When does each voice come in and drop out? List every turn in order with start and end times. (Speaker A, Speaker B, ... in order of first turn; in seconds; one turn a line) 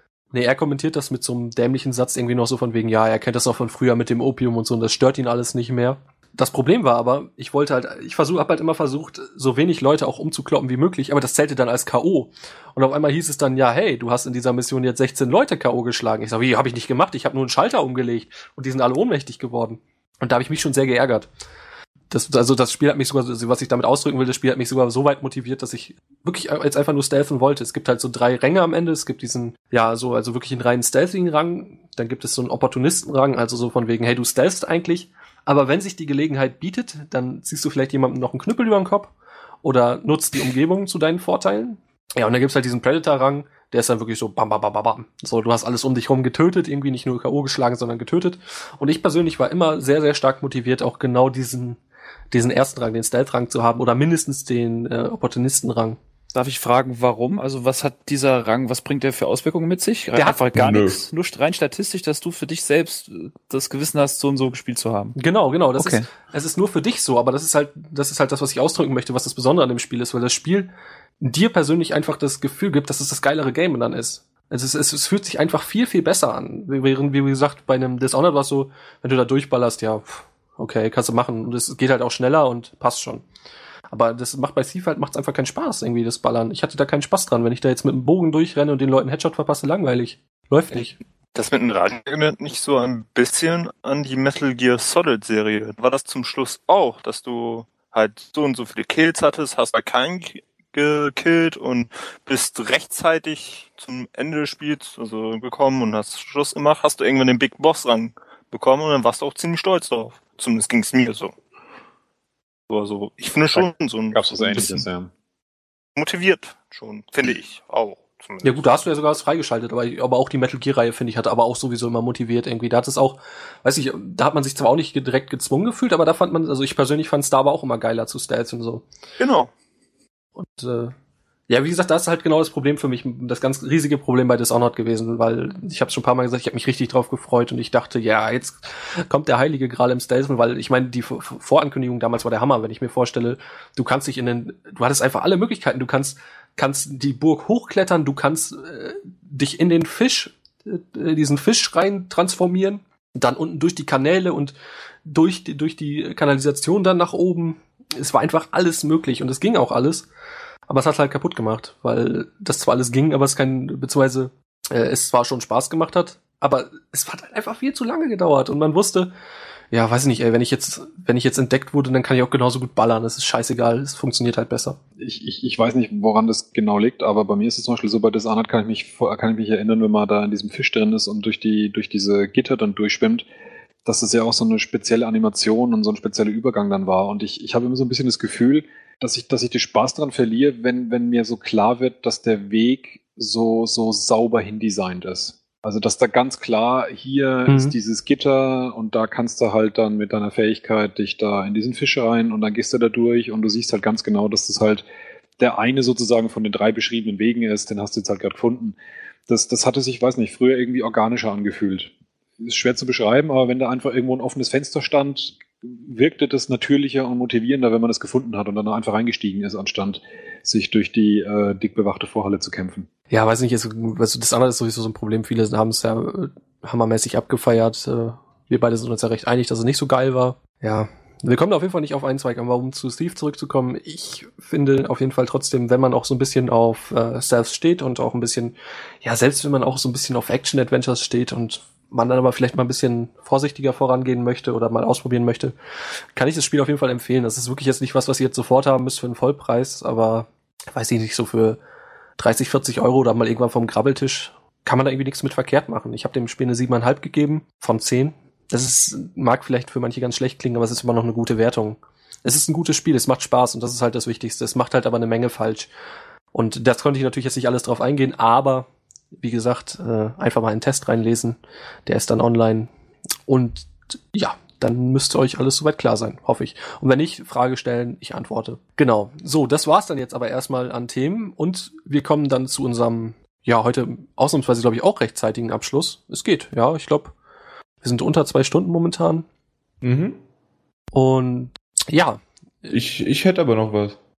Speaker A: 0.3-21.3
Speaker A: 22.1-39.1
Speaker A: 39.6-51.8
Speaker A: 52.3-56.0
Speaker B: 56.3-65.2
Speaker C: 60.5-61.0
Speaker A: 65.2-83.2
Speaker B: 65.8-66.0
Speaker A: 83.9-91.0
Speaker D: 91.3-111.3
Speaker D: 112.7-114.8
Speaker E: 113.5-115.1
Speaker D: 116.0-118.7
Speaker A: 118.4-128.8
Speaker D: 129.2-129.5
Speaker A: 130.3-130.9
Speaker A: 131.5-154.5
Speaker A: 155.1-160.1
Speaker A: 160.7-169.1
Speaker A: 169.7-174.8
Speaker E: 175.0-183.3
Speaker E: 183.8-204.8
Speaker A: 197.5-197.7
Speaker E: 205.4-208.8
Speaker E: 209.3-222.9
Speaker A: 223.1-245.5
Speaker A: 246.1-251.6
Speaker A: 252.2-265.7
Speaker A: 266.3-272.7
Speaker A: 273.3-287.1
Speaker A: 287.8-289.2
Speaker C: 289.8-290.2
Speaker A: 290.9-292.8
Speaker C: 292.7-294.0